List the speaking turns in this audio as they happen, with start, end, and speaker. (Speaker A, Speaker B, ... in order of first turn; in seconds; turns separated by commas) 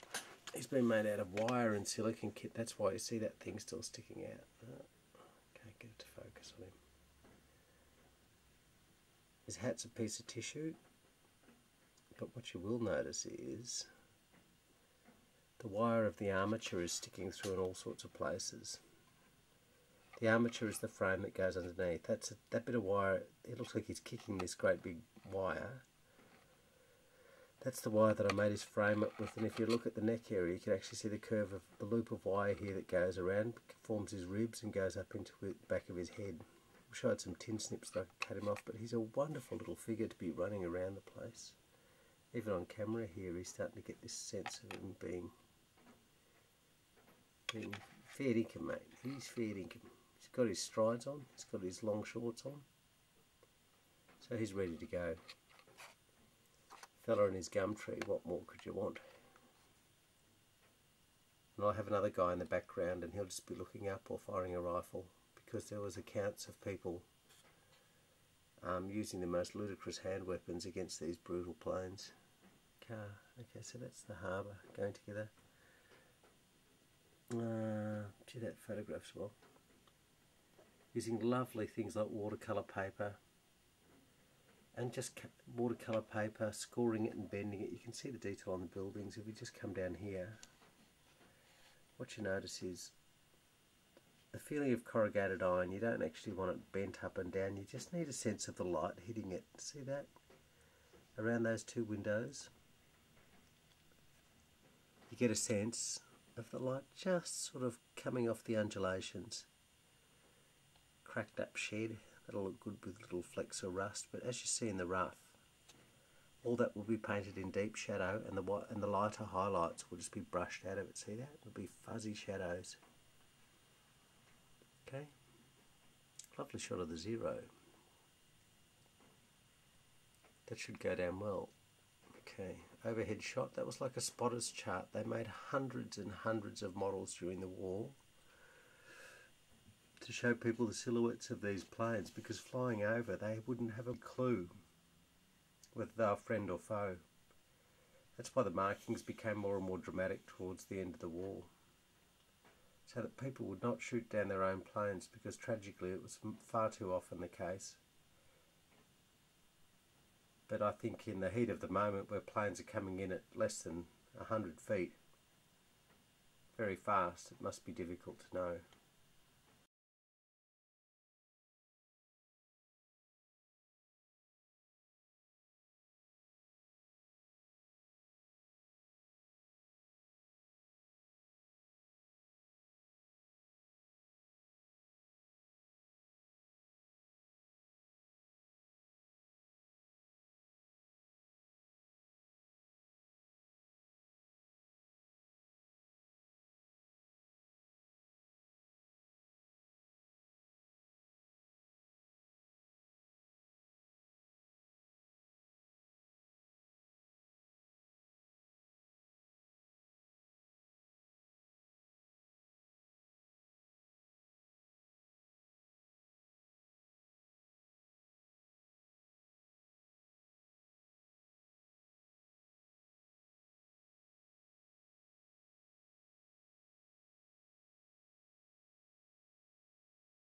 Speaker A: 0.5-4.9, Speaker A: 5.5-6.8, Speaker A: 9.5-10.8, Speaker A: 12.2-13.9, Speaker A: 15.6-18.8, Speaker A: 20.2-25.8, Speaker A: 27.6-41.6, Speaker A: 42.3-45.3, Speaker A: 47.5-52.7, Speaker A: 54.2-55.2, Speaker A: 57.0-59.0, Speaker A: 61.6-67.1, Speaker A: 68.6-72.1, Speaker A: 72.8-75.3, Speaker A: 77.3-79.4, Speaker A: 80.9-83.2, Speaker A: 84.8-90.4, Speaker A: 92.0-92.9, Speaker A: 94.3-100.1, Speaker A: 101.2-102.5, Speaker A: 105.1-109.5, Speaker A: 111.0-115.4, Speaker A: 116.4-122.8, Speaker A: 124.8-125.1, Speaker A: 126.3-127.5, Speaker A: 130.5-131.5, Speaker A: 132.2-138.0, Speaker A: 140.0-144.5, Speaker A: 145.7-147.0, Speaker A: 148.2-151.5, Speaker A: 152.9-157.8, Speaker A: 160.5-165.0, Speaker A: 166.5-168.6